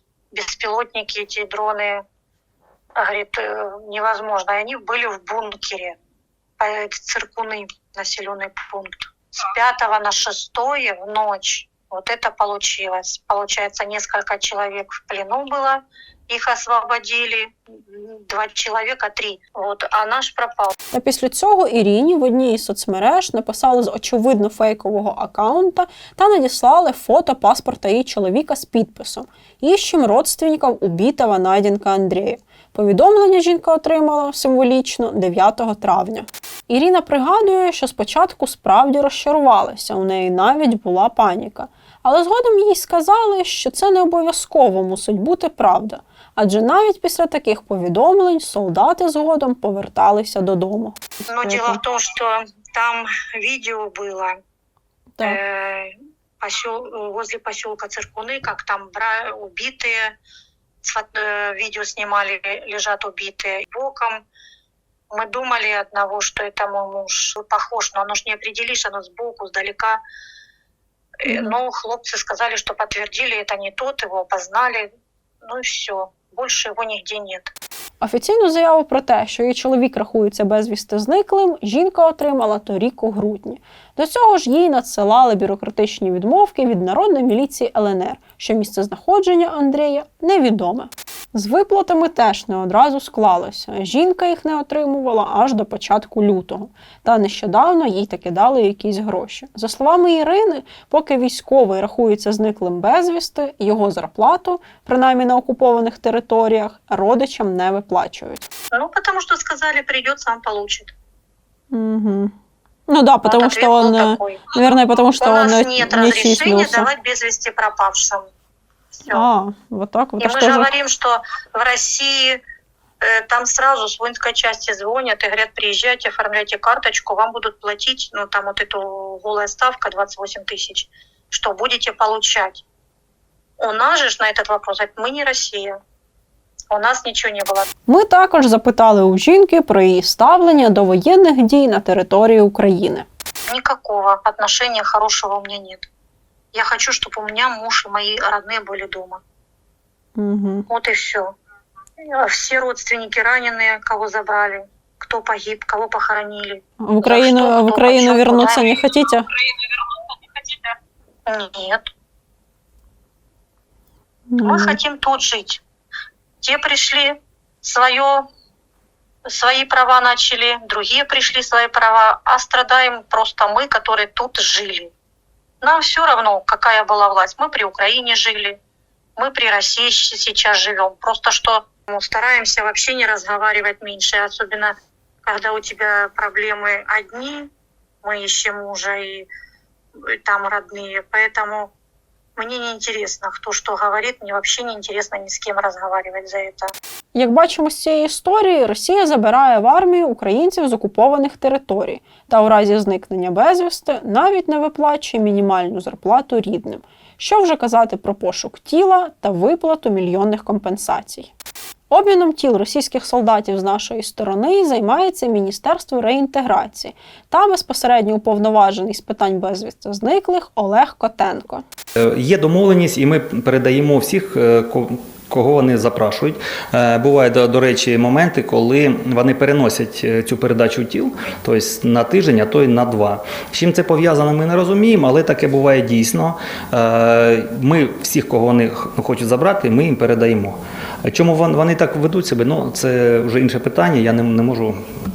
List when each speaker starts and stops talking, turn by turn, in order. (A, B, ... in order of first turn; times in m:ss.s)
0:00.3-0:02.0 A
0:03.0-0:06.0 A
0:06.6-0:20.7 A
0:20.9-0:51.8 B
0:51.3-0:54.3 A
0:55.2-1:00.1 A
1:00.8-1:04.2 A
1:05.1-1:10.0 A
1:11.2-1:14.9 A
1:15.4-1:17.5 A
1:18.0-1:48.5 B
1:48.7-1:50.9 A
1:51.7-1:52.3 B
1:52.9-1:56.9 B
1:53.2-1:54.5 A
1:55.2-1:58.2 A
1:59.0-1:59.2 A
1:59.1-2:00.7 B
2:00.2-2:02.4 A
2:03.0-2:12.6 A
2:13.6-2:15.7 A
2:16.7-2:17.6 A
2:17.9-2:23.1 B
2:23.5-2:25.9 A
2:26.5-2:29.2 A
2:30.2-2:30.7 B
2:30.7-2:31.3 A
2:32.0-2:38.8 A
2:36.8-2:39.3 B
2:40.4-2:40.7 A
2:41.3-2:41.8 A
2:44.3-2:44.8 B
2:44.4-2:45.6 A
2:46.4-2:48.2 A
2:49.3-2:54.9 A
2:55.6-2:58.6 A
2:59.2-3:04.7 A
3:05.2-3:07.5 A
3:08.0-3:09.3 A
3:10.1-3:11.7 A
3:12.4-3:16.7 A
3:17.1-3:31.3 B
3:31.9-3:41.6 B
3:42.1-4:04.8 C